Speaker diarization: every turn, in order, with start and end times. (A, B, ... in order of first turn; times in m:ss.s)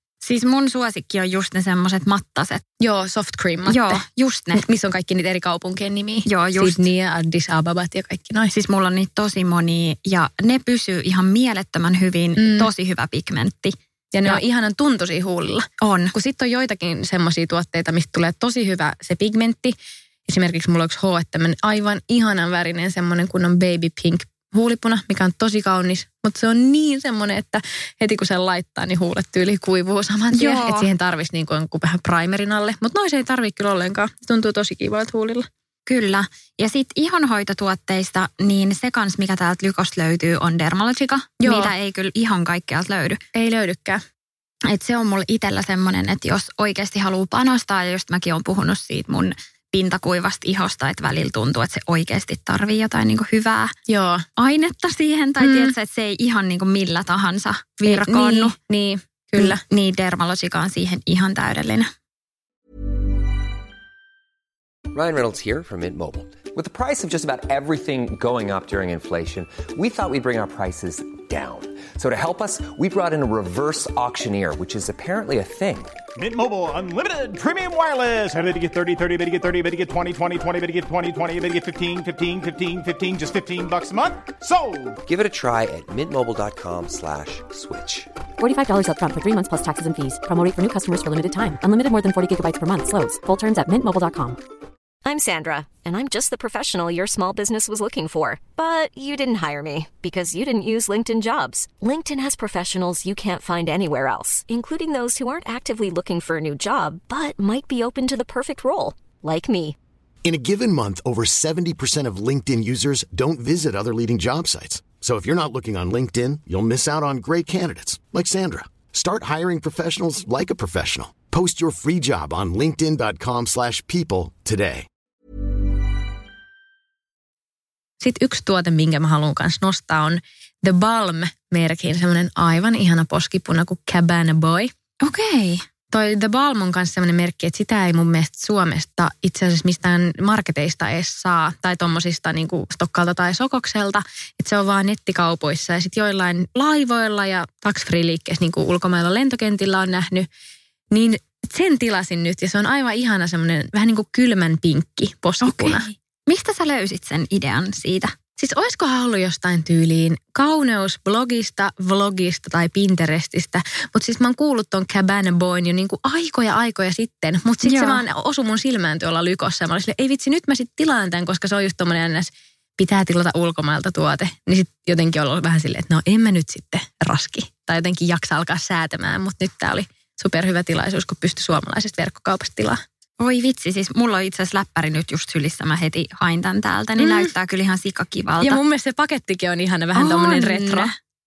0:00.2-0:02.6 A
0:02.8-0:04.0 B
0:03.6-0:04.6 A
0:04.5-0:08.5 B
0:06.3-0:06.8 A
0:08.5-0:14.4 A
0:12.4-0:12.7 B
0:14.1-0:19.7 B
0:15.8-0:16.1 A
0:20.3-0:35.5 B
0:30.3-0:30.9 A
0:35.9-0:43.2 A
0:41.4-0:41.7 B
0:43.3-0:44.0 B
0:44.7-0:53.7 A
0:53.9-0:54.2 B
0:54.4-0:58.5 A
0:55.4-0:55.7 B
0:57.8-0:59.6 B
0:59.4-1:01.9 A
1:04.9-1:15.9 C
1:16.2-1:25.0 D
1:25.0-1:28.1 C
1:28.4-1:34.4 E
1:35.0-1:49.8 F
1:50.2-2:04.9 G
2:08.0-2:14.7 B
2:15.0-2:15.6 A
2:15.9-2:30.3 B
2:30.9-2:35.8 B
2:35.4-2:38.1 A
2:38.4-3:02.8 B
2:47.6-2:48.0 A
3:03.2-3:08.6 A
3:07.0-3:07.3 B
3:08.4-3:10.9 B
3:10.0-3:10.9 A